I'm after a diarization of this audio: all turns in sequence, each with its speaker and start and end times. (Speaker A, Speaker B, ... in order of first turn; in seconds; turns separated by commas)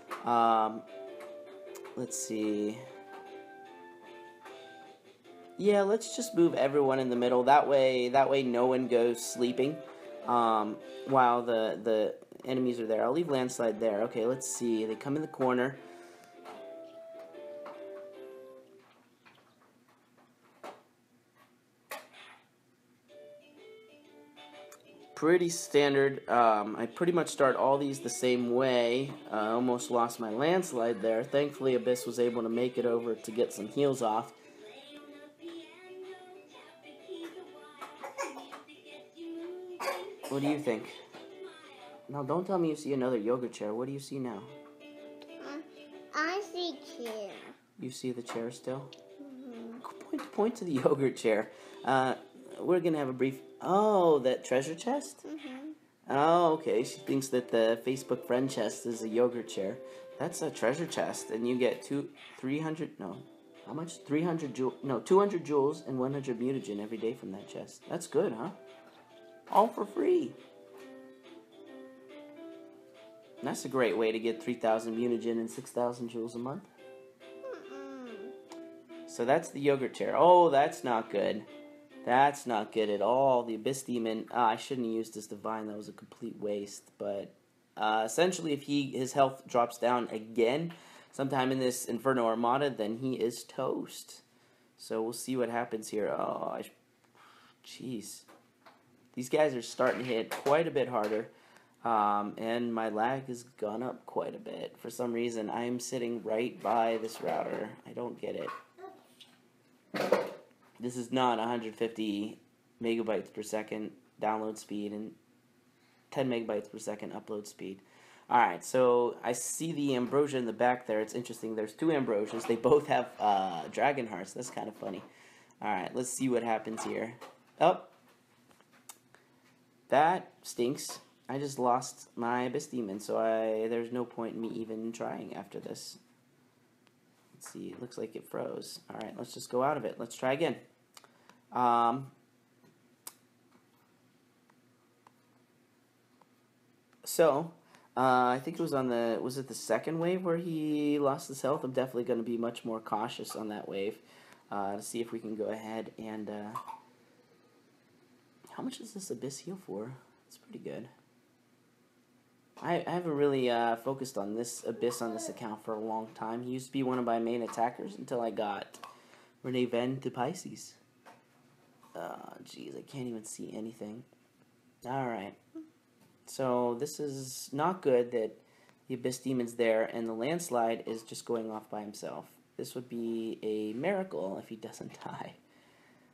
Speaker A: 0.2-0.9, Speaker A: 1.9-2.8, Speaker A: 5.6-15.8, Speaker A: 25.1-34.4, Speaker B: 34.9-40.2, Speaker A: 40.2-41.0, Speaker A: 42.1-44.6, Speaker B: 45.4-47.5, Speaker A: 47.8-48.9, Speaker B: 49.2-49.8, Speaker A: 49.8-55.2, Speaker B: 55.2-55.8, Speaker A: 56.0-68.6, Speaker A: 69.5-70.4, Speaker A: 73.4-76.7, Speaker B: 77.4-78.3, Speaker A: 79.1-81.5, Speaker A: 82.0-94.2, Speaker A: 94.8-96.7, Speaker A: 97.6-98.3, Speaker A: 99.1-101.3, Speaker A: 101.8-108.5, Speaker A: 110.8-115.2, Speaker A: 116.1-125.1, Speaker A: 125.6-127.9, Speaker A: 129.9-136.0, Speaker A: 137.3-140.6, Speaker A: 141.5-142.1, Speaker A: 147.0-156.6, Speaker A: 158.5-160.9, Speaker A: 162.6-168.8, Speaker A: 169.4-170.8, Speaker A: 171.9-174.1, Speaker A: 174.8-175.4, Speaker A: 176.2-185.4